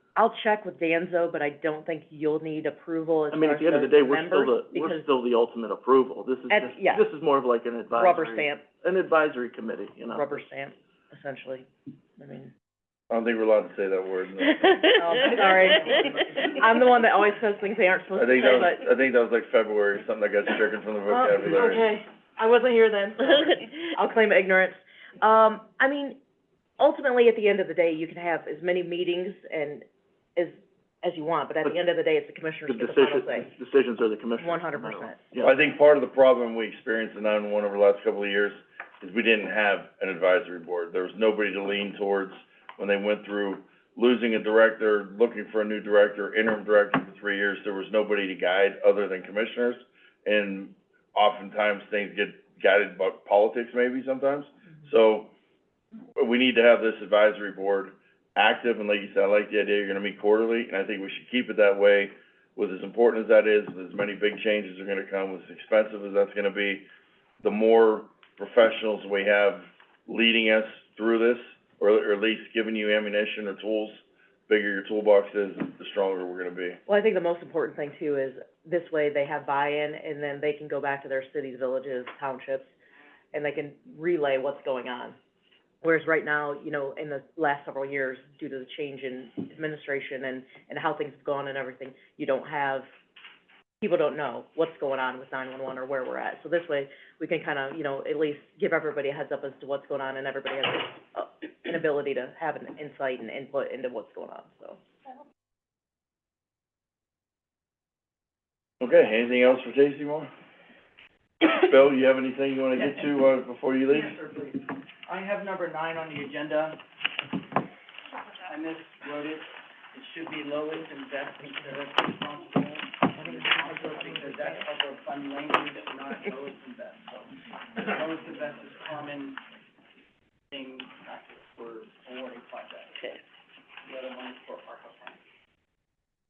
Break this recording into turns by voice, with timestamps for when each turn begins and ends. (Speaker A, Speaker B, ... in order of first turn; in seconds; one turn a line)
Speaker A: 0.1-5.1
Speaker B: 3.3-10.3
Speaker A: 6.5-7.0
Speaker A: 7.9-8.6
Speaker A: 10.1-11.7
Speaker A: 12.2-12.5
Speaker C: 13.1-15.0
Speaker A: 14.9-18.8
Speaker C: 18.1-21.9
Speaker A: 21.1-26.2
Speaker A: 26.8-33.5
Speaker B: 32.7-35.5
Speaker A: 34.4-35.2
Speaker C: 35.4-55.3
Speaker C: 56.1-66.9
Speaker C: 67.4-76.8
Speaker A: 76.9-82.7
Speaker A: 83.3-85.2
Speaker A: 85.8-92.8
Speaker A: 93.8-104.8
Speaker C: 108.8-110.3
Speaker C: 111.4-114.2
Speaker D: 113.9-116.8
Speaker D: 118.4-129.4
Speaker A: 123.2-124.6
Speaker D: 130.5-133.2
Speaker D: 133.8-135.2